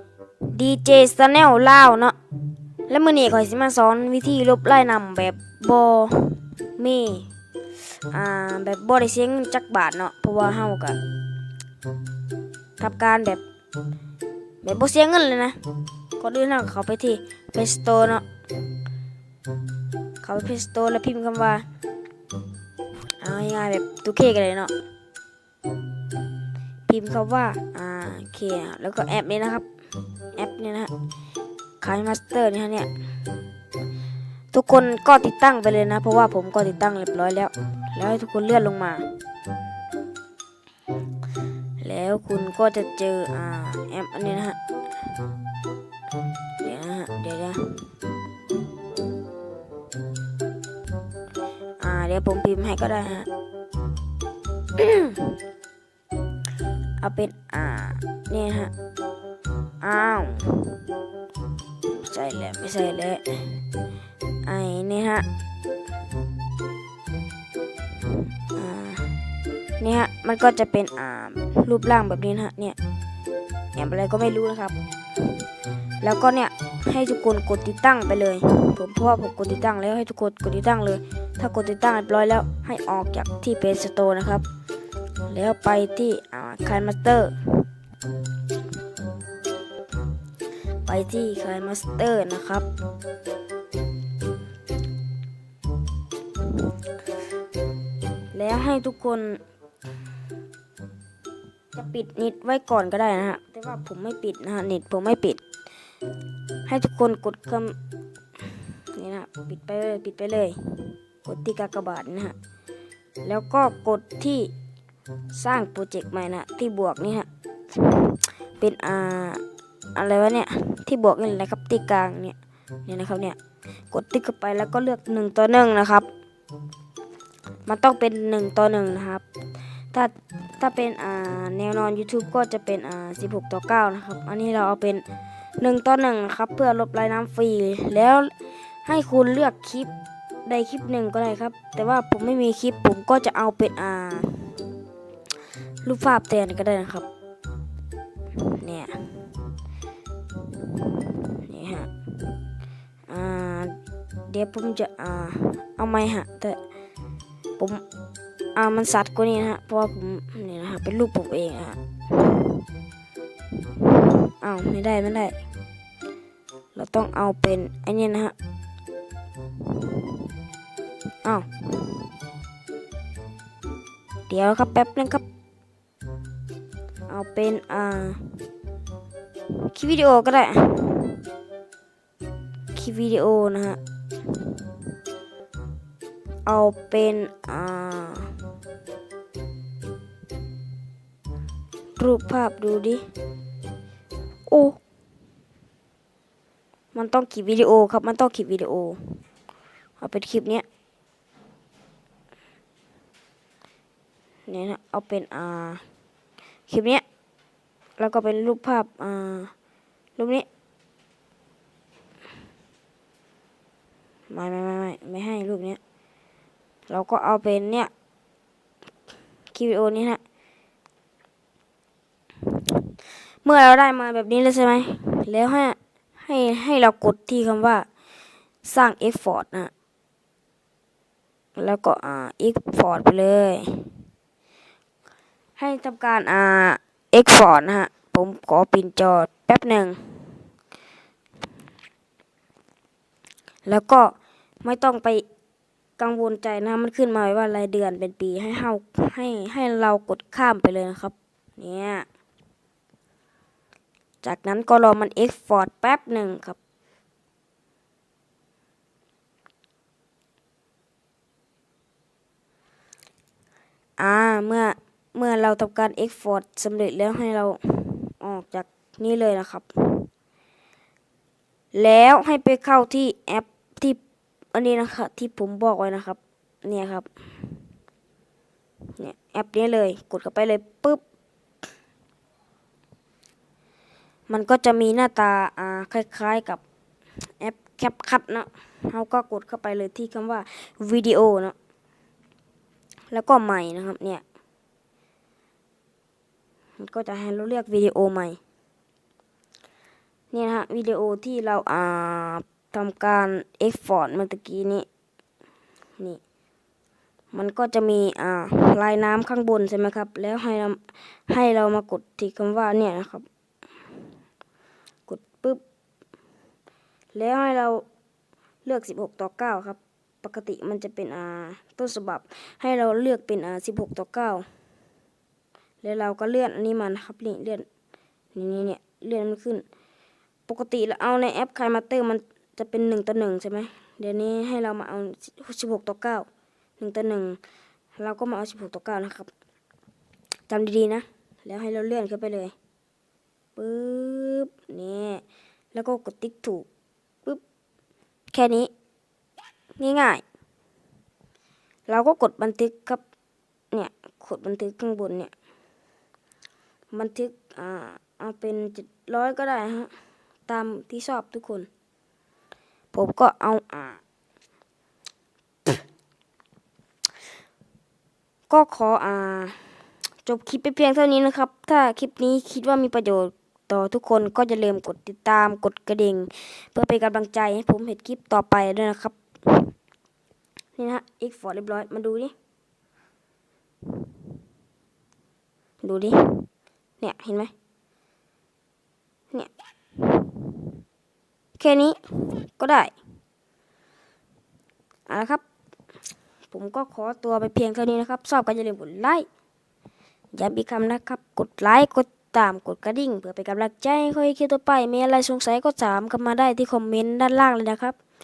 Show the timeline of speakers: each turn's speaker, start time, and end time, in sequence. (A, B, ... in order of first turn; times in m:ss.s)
0:00.4-0:02.2 A
0:02.9-0:07.3 A
0:08.1-0:11.0 A
0:12.8-0:13.4 A
0:14.6-0:15.6 A
0:16.2-0:18.2 A
0:20.2-0:21.6 A
0:23.1-0:24.7 A
0:26.9-0:29.6 A
0:30.3-0:30.9 A
0:31.8-0:32.9 A
0:34.5-0:39.1 A
0:41.8-0:44.6 A
0:46.6-0:47.8 A
0:51.8-0:53.3 A
0:54.7-0:55.3 A
0:57.0-0:58.7 A
0:59.8-1:00.9 A
1:01.9-1:03.6 A
1:04.4-1:05.3 A
1:08.5-1:09.2 A
1:09.8-1:12.8 A
1:13.8-1:14.8 A
1:16.0-1:24.4 A
1:25.3-1:27.6 A
1:30.8-1:32.7 A
1:38.3-1:39.4 A
1:41.7-1:45.4 A
1:46.6-1:47.8 A
1:48.4-1:52.3 A
1:53.2-1:54.5 A
1:55.3-1:59.4 A
1:59.9-2:03.4 A
2:03.9-2:06.1 A
2:07.6-2:09.2 A
2:09.9-2:15.0 A
2:15.6-2:18.3 A
2:18.8-2:19.9 A
2:20.4-2:24.5 A
2:25.8-2:27.0 A
2:28.4-2:29.0 A
2:31.0-2:31.9 A
2:33.1-2:33.8 A
2:34.3-2:36.6 A
2:38.5-2:42.6 A
2:43.8-2:45.4 A
2:46.7-2:48.3 A
2:51.2-2:51.6 A
2:54.3-2:55.2 A
2:57.1-2:58.4 A
2:59.5-3:01.2 A
3:02.7-3:03.8 A
3:06.4-3:08.4 A
3:12.0-3:13.0 A
3:14.5-3:14.8 A
3:16.9-3:19.2 A
3:20.0-3:20.6 A
3:24.5-3:25.8 A
3:26.7-3:27.0 A
3:28.0-3:29.5 A
3:30.2-3:30.5 A
3:34.3-3:35.8 A
3:36.9-3:37.9 A
3:39.5-3:40.2 A
3:42.5-3:42.8 A
3:43.4-3:47.8 A
3:48.6-3:49.7 A
3:51.6-3:53.9 A
3:55.6-4:00.4 A
4:03.6-4:05.2 A
4:06.0-4:12.1 A
4:14.2-4:16.6 A
4:24.0-4:30.1 A
4:31.7-4:34.0 A
4:34.5-4:37.1 A
4:39.0-4:41.0 A
4:44.3-4:46.6 A
4:47.4-4:51.5 A
4:53.1-4:54.2 A
4:56.8-4:58.4 A
5:00.3-5:04.9 A
5:07.3-5:13.2 A
5:15.1-5:15.6 A
5:17.1-5:17.8 A
5:18.6-5:24.4 A
5:25.8-5:27.6 A
5:28.3-5:29.6 A
5:30.5-5:36.3 A
5:36.8-5:37.4 A
5:38.0-5:39.3 A
5:40.5-5:42.5 A
5:43.6-5:45.2 A
5:45.7-5:46.7 A
5:48.3-5:48.7 A
5:49.8-5:50.2 A
5:51.9-5:53.0 A
5:53.7-5:55.3 A
5:56.9-5:59.9 A
6:00.5-6:01.7 A
6:02.9-6:04.0 A
6:08.5-6:09.6 A
6:10.2-6:19.7 A
6:20.8-6:22.3 A
6:25.8-6:26.5 A
6:27.0-6:27.5 A
6:29.3-6:30.6 A
6:31.6-6:32.9 A
6:35.1-6:35.4 A
6:36.5-6:39.2 A
6:40.3-6:48.0 A